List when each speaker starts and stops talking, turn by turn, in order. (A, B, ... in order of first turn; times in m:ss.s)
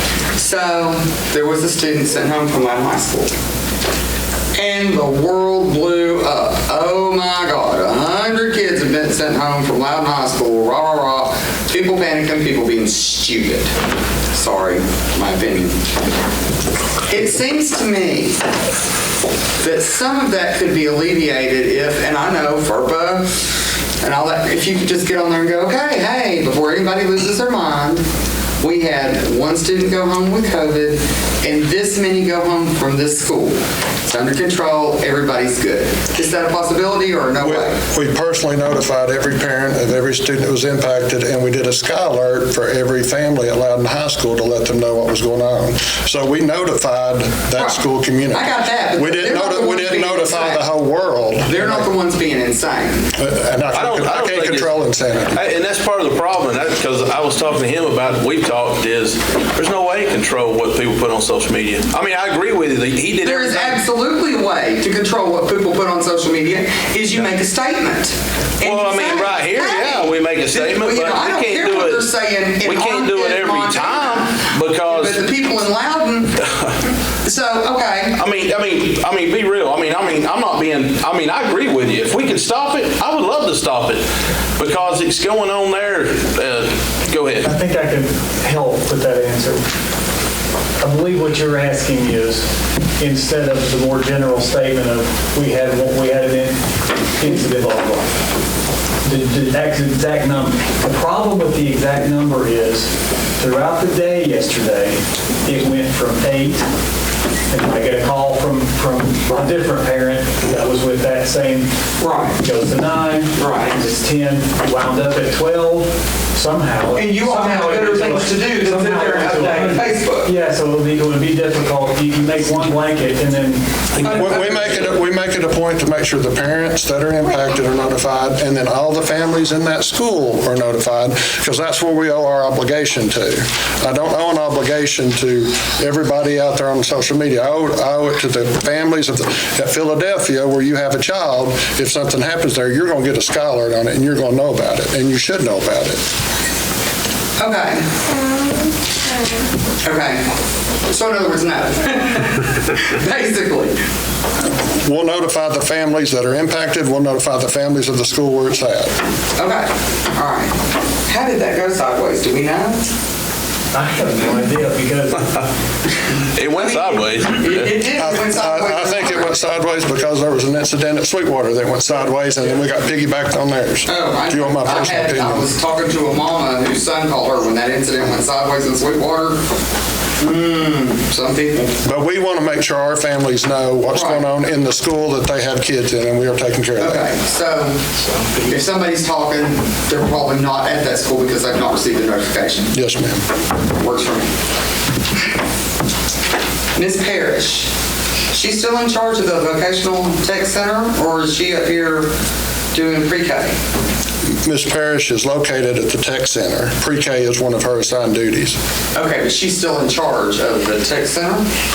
0:00.3-0:03.3 A
0:04.5-0:13.7 A
0:14.3-0:15.8 A
0:17.1-0:18.4 A
0:19.6-0:23.4 A
0:24.0-0:28.0 A
0:28.6-0:37.8 A
0:37.4-0:51.8 B
0:47.6-0:50.7 A
0:51.4-0:53.1 A
0:53.1-0:55.4 B
0:53.7-0:54.8 C
0:55.3-1:03.8 C
1:03.2-1:16.4 A
1:08.6-1:12.1 C
1:12.6-1:15.2 C
1:17.2-1:18.2 A
1:18.2-1:24.0 C
1:24.6-1:27.5 C
1:27.4-1:29.6 D
1:30.8-1:32.4 D
1:33.0-1:36.6 D
1:37.2-1:38.1 D
1:39.0-1:46.6 D
1:47.5-1:51.7 D
1:52.0-1:52.4 A
1:52.4-2:04.1 D
1:53.3-1:53.8 A
1:56.9-2:00.3 A
2:04.0-2:04.7 C
2:04.1-2:26.0 B
2:27.4-2:27.8 A
2:29.8-2:30.2 A
2:30.8-2:33.7 A
2:34.8-2:38.9 B
2:39.4-2:42.9 A
2:43.7-2:45.4 D
2:46.3-2:47.8 C
2:46.5-2:49.4 A
2:48.0-2:55.5 B
2:53.8-2:59.4 A
3:00.2-3:01.8 A
3:01.8-3:07.0 B
3:03.9-3:04.2 A
3:06.8-3:07.8 A
3:08.4-3:12.7 A
3:12.7-3:13.2 B
3:13.8-3:14.3 A
3:16.7-3:17.7 A
3:18.3-3:22.1 A
3:22.7-3:23.5 A
3:24.4-3:28.6 B
3:28.9-3:31.4 A